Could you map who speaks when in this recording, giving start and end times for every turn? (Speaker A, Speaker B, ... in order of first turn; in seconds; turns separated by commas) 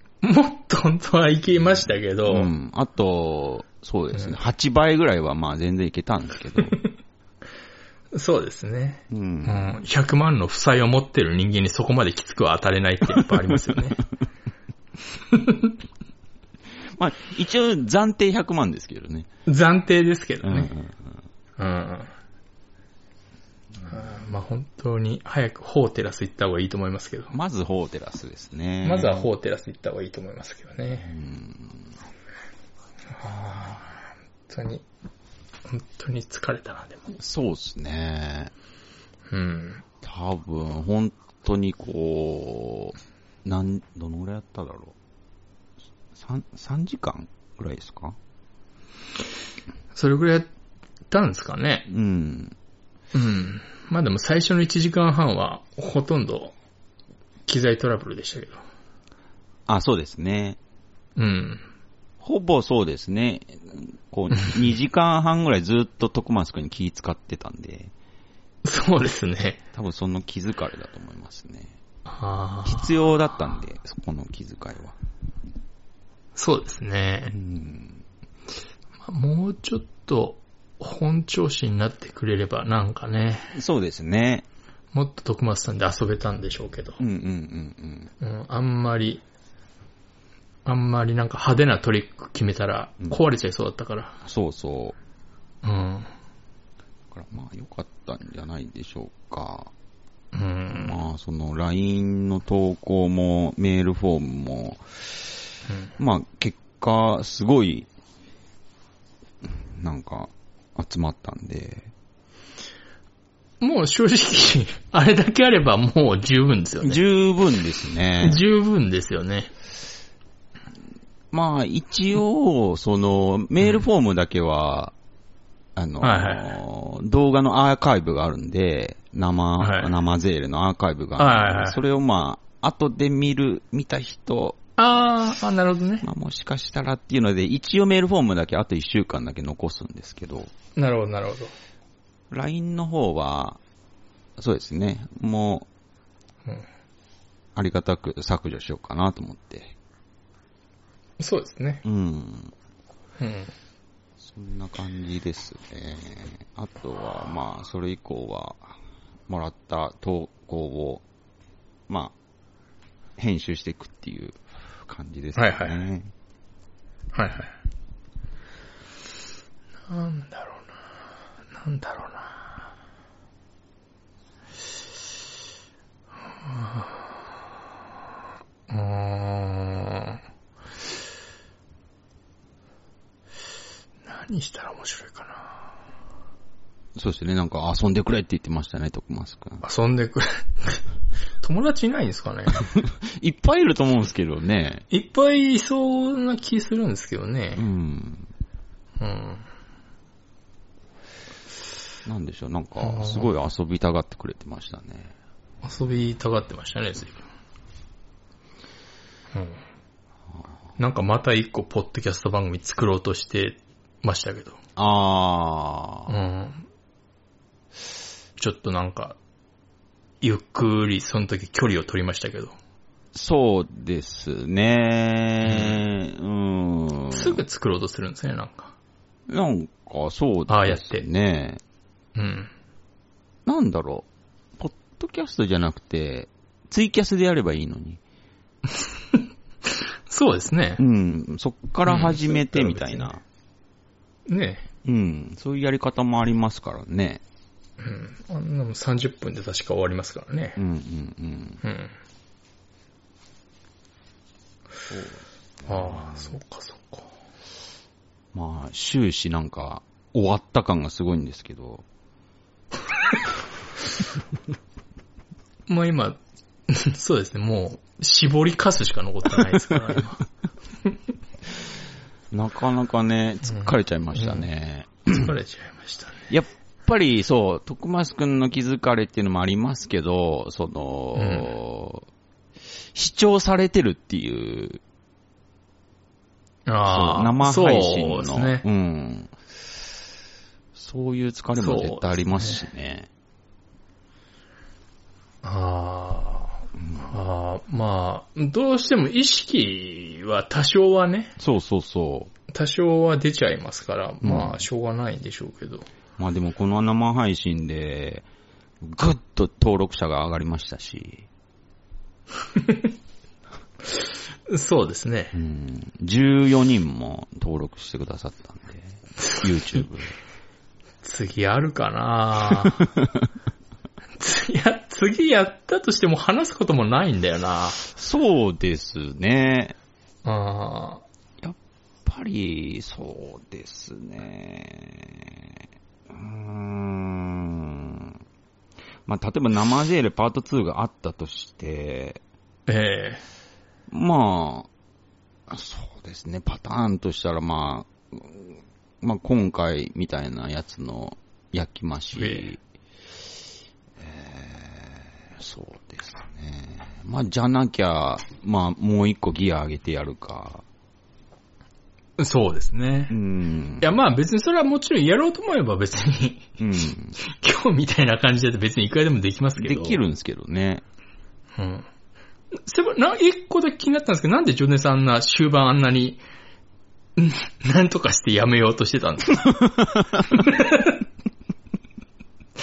Speaker A: 0.2-2.5, Speaker B: 2.2-6.8, Speaker A: 8.1-14.0, Speaker B: 9.1-9.7, Speaker A: 15.3-15.7, Speaker B: 16.9-19.3, Speaker A: 19.5-20.7, Speaker B: 20.4-21.1, Speaker A: 21.6-22.1, Speaker A: 23.9-27.3, Speaker B: 27.3-29.3, Speaker A: 28.8-31.1, Speaker B: 31.0-31.8, Speaker A: 33.1-34.8, Speaker A: 35.7-37.0, Speaker B: 37.2-38.5, Speaker A: 39.3-39.8, Speaker B: 40.0-44.9, Speaker B: 46.1-48.2, Speaker A: 49.9-50.5, Speaker A: 51.1-51.9, Speaker B: 51.9-52.5, Speaker A: 53.1-56.5, Speaker A: 57.5-58.6, Speaker B: 59.7-60.6, Speaker A: 61.2-61.6, Speaker B: 62.2-67.9, Speaker A: 68.6-69.6, Speaker B: 69.7-71.7, Speaker A: 72.1-72.9, Speaker B: 72.6-75.0, Speaker A: 76.3-77.3, Speaker B: 77.3-78.0, Speaker A: 79.0-83.5, Speaker B: 83.5-84.4, Speaker A: 84.9-87.0, Speaker B: 87.0-88.1, Speaker A: 88.2-89.2, Speaker A: 90.6-94.2, Speaker B: 94.2-95.0, Speaker A: 95.6-96.1, Speaker B: 97.1-99.7, Speaker A: 100.3-101.0, Speaker B: 100.7-104.8, Speaker B: 106.0-107.9, Speaker B: 109.4-111.9, Speaker A: 113.6-117.0, Speaker B: 116.8-118.4, Speaker A: 118.2-119.5, Speaker B: 121.3-124.9, Speaker B: 125.8-134.6, Speaker A: 126.0-126.5, Speaker A: 129.6-129.9, Speaker A: 131.2-131.8, Speaker A: 134.8-136.1, Speaker B: 136.0-140.5, Speaker A: 140.8-141.5, Speaker B: 142.3-143.6, Speaker B: 144.4-145.7, Speaker B: 147.5-149.7, Speaker A: 151.2-151.8, Speaker B: 151.8-152.5, Speaker A: 153.2-153.5, Speaker B: 154.2-158.7, Speaker B: 159.3-161.0, Speaker B: 161.9-162.1, Speaker B: 163.2-166.1, Speaker A: 165.3-165.8, Speaker A: 167.1-167.5, Speaker A: 169.9-170.7, Speaker A: 171.5-172.6, Speaker A: 176.4-176.9, Speaker A: 178.7-180.2, Speaker A: 184.1-185.6, Speaker B: 186.9-189.6, Speaker A: 189.6-190.8, Speaker A: 191.4-192.6, Speaker B: 192.6-194.8, Speaker A: 194.9-197.7, Speaker B: 197.5-198.3, Speaker A: 199.0-199.4, Speaker B: 202.0-205.1, Speaker A: 202.8-203.3, Speaker A: 205.6-207.2, Speaker A: 209.3-209.6, Speaker A: 210.8-214.6, Speaker B: 214.8-216.1, Speaker A: 216.1-216.6, Speaker A: 218.4-219.2, Speaker A: 220.2-222.5, Speaker B: 223.1-227.4, Speaker A: 225.5-225.8, Speaker A: 227.1-228.7, Speaker B: 229.3-231.6, Speaker A: 230.5-231.0, Speaker A: 232.1-232.5, Speaker B: 233.4-234.1, Speaker B: 234.6-238.0, Speaker A: 238.7-240.8, Speaker B: 240.8-243.2, Speaker A: 241.8-243.1, Speaker A: 244.3-244.7, Speaker B: 244.8-247.2, Speaker A: 247.8-250.6, Speaker B: 250.6-251.6, Speaker A: 251.6-251.9, Speaker B: 254.9-256.4, Speaker A: 255.7-257.1, Speaker B: 258.3-261.8, Speaker A: 265.7-270.2, Speaker B: 272.3-275.3, Speaker A: 273.5-274.4, Speaker A: 275.1-276.2, Speaker B: 276.3-282.1, Speaker A: 281.1-281.5, Speaker B: 282.9-284.8, Speaker A: 286.7-288.6, Speaker B: 286.9-289.3, Speaker B: 290.7-293.1, Speaker A: 291.5-292.6, Speaker A: 295.4-301.3, Speaker B: 301.4-302.3, Speaker A: 302.5-305.9, Speaker B: 304.2-304.6, Speaker B: 306.2-308.2, Speaker B: 308.8-311.2, Speaker A: 312.6-312.8, Speaker A: 314.5-315.3, Speaker B: 315.3-320.1, Speaker A: 321.0-322.9, Speaker A: 324.2-327.8, Speaker B: 327.8-329.8, Speaker A: 330.2-331.0, Speaker B: 331.4-335.5, Speaker B: 336.1-338.2, Speaker B: 339.1-342.2, Speaker A: 342.7-343.2, Speaker B: 343.9-344.7, Speaker B: 345.5-352.6, Speaker A: 352.2-352.5, Speaker B: 354.0-360.6, Speaker A: 362.2-363.1, Speaker B: 363.1-364.0, Speaker A: 363.8-366.6, Speaker B: 366.6-367.1, Speaker A: 367.2-370.0, Speaker B: 369.6-370.8, Speaker A: 371.6-371.9, Speaker A: 372.6-376.2, Speaker A: 377.2-381.0